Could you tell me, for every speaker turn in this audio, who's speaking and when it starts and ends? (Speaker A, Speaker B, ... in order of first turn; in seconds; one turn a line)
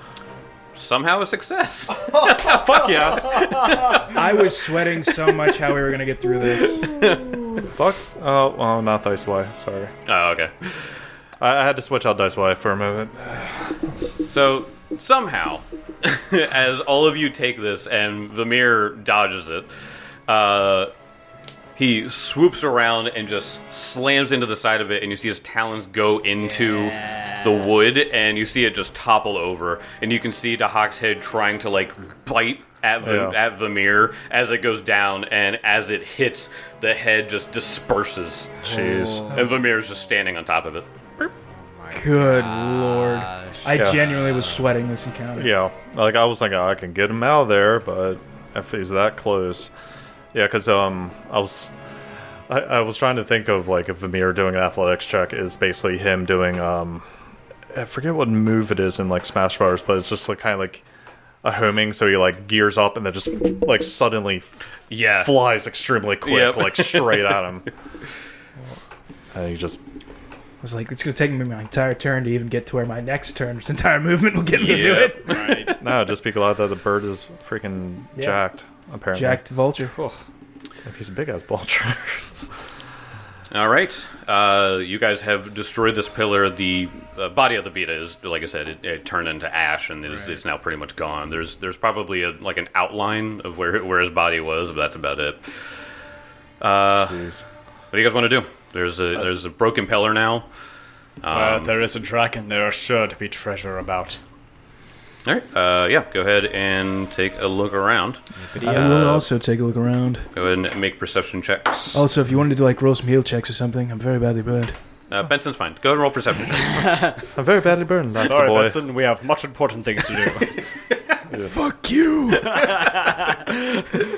Speaker A: 0.8-4.0
Speaker B: 2.1-3.9
Speaker C: 4.1-7.0
Speaker B: 7.7-9.9
Speaker A: 10.1-10.5
Speaker B: 11.4-13.7
Speaker A: 14.3-19.7
Speaker A: 20.3-20.9
Speaker A: 21.8-40.9
Speaker D: 26.4-27.7
Speaker B: 33.0-33.4
Speaker B: 38.6-39.4
Speaker D: 38.7-39.4
Speaker D: 41.2-44.7
Speaker C: 41.9-45.5
Speaker B: 43.7-44.0
Speaker B: 45.4-49.7
Speaker B: 50.3-51.7
Speaker B: 52.5-57.1
Speaker B: 57.7-60.9
Speaker B: 61.4-64.5
Speaker A: 64.9-65.5
Speaker B: 65.1-67.7
Speaker A: 66.2-67.4
Speaker B: 69.3-69.8
Speaker C: 70.6-75.7
Speaker A: 74.6-75.3
Speaker D: 74.6-75.8
Speaker B: 75.8-79.4
Speaker C: 79.1-79.9
Speaker D: 79.9-80.2
Speaker B: 80.9-82.3
Speaker A: 83.5-95.4
Speaker D: 90.1-90.4
Speaker A: 96.6-97.2
Speaker B: 97.0-97.4
Speaker A: 97.9-100.5
Speaker A: 101.2-101.7
Speaker D: 101.3-104.2
Speaker A: 105.2-109.2
Speaker D: 108.4-109.1
Speaker C: 108.6-110.3
Speaker A: 110.3-112.0
Speaker C: 111.9-114.8
Speaker A: 115.1-117.0
Speaker D: 116.7-117.2
Speaker B: 117.3-118.8
Speaker D: 118.2-120.6
Speaker C: 121.4-123.0
Speaker D: 122.3-124.0